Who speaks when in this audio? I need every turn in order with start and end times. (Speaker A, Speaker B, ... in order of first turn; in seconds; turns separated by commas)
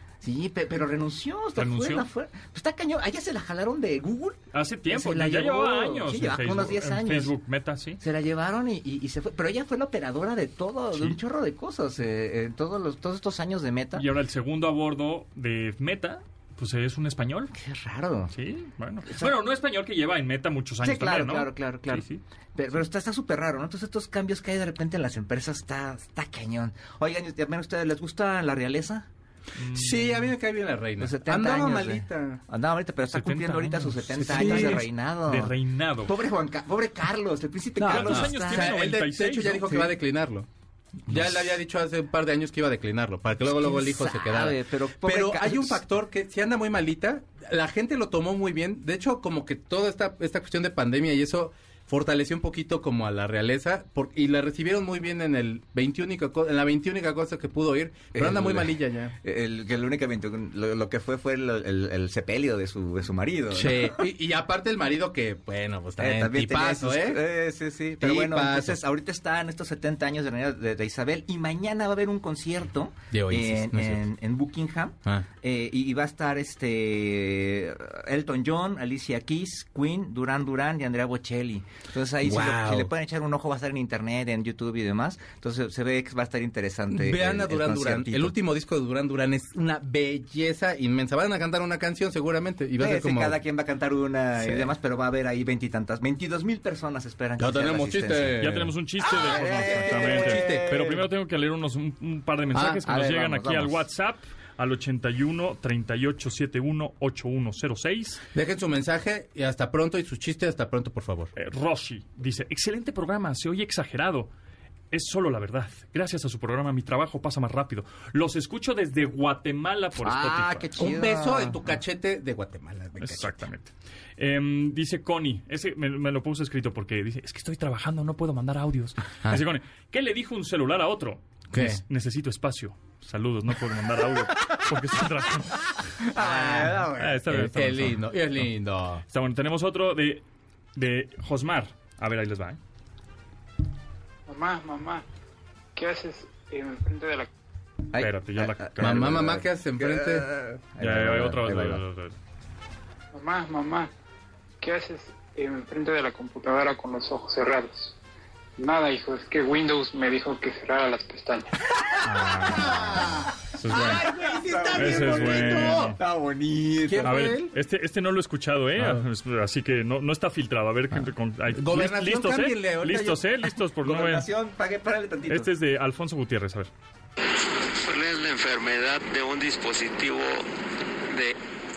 Speaker A: 0.2-7.3, Speaker B: 1.6-2.1, Speaker B: 4.5-8.0, Speaker A: 8.0-14.1, Speaker B: 13.9-17.5, Speaker A: 17.6-18.3, Speaker B: 18.3-22.2, Speaker A: 19.1-19.3, Speaker A: 20.8-29.1, Speaker B: 29.6-30.3, Speaker C: 29.7-32.4, Speaker A: 31.0-38.8, Speaker B: 33.1-36.2, Speaker C: 34.2-34.9, Speaker C: 37.8-40.5, Speaker B: 37.8-39.8, Speaker C: 41.1-59.1, Speaker A: 43.4-45.8, Speaker A: 58.1-64.0, Speaker C: 63.5-67.3, Speaker A: 66.0-88.3, Speaker C: 68.0-68.8, Speaker C: 73.1-74.1, Speaker C: 82.2-82.9, Speaker C: 86.9-93.4, Speaker A: 92.8-98.5, Speaker C: 94.4-94.7, Speaker C: 97.4-101.0, Speaker B: 98.4-108.2, Speaker A: 99.0-101.0, Speaker C: 102.5-102.8, Speaker A: 102.8-103.8, Speaker C: 108.3-111.3, Speaker B: 111.3-114.3, Speaker B: 114.9-120.7, Speaker A: 120.0-121.7, Speaker C: 120.8-123.5, Speaker B: 123.0-135.7, Speaker C: 131.5-131.8, Speaker A: 136.1-137.2, Speaker C: 136.1-139.0, Speaker B: 136.9-138.0, Speaker B: 139.1-140.2, Speaker B: 140.8-142.6, Speaker D: 144.3-145.1, Speaker D: 145.8-147.3, Speaker A: 147.9-151.8, Speaker B: 148.0-149.2, Speaker C: 148.8-150.3, Speaker B: 150.8-152.2, Speaker D: 153.1-153.9, Speaker D: 154.6-158.0, Speaker D: 158.6-161.5, Speaker B: 162.0-164.1, Speaker C: 162.2-166.0, Speaker A: 163.7-167.2, Speaker B: 164.7-166.0, Speaker C: 166.8-167.5, Speaker B: 167.0-174.3, Speaker C: 168.8-169.1, Speaker C: 171.5-173.2, Speaker A: 173.8-175.5, Speaker B: 175.3-176.7, Speaker E: 177.6-180.5, Speaker E: 181.1-181.3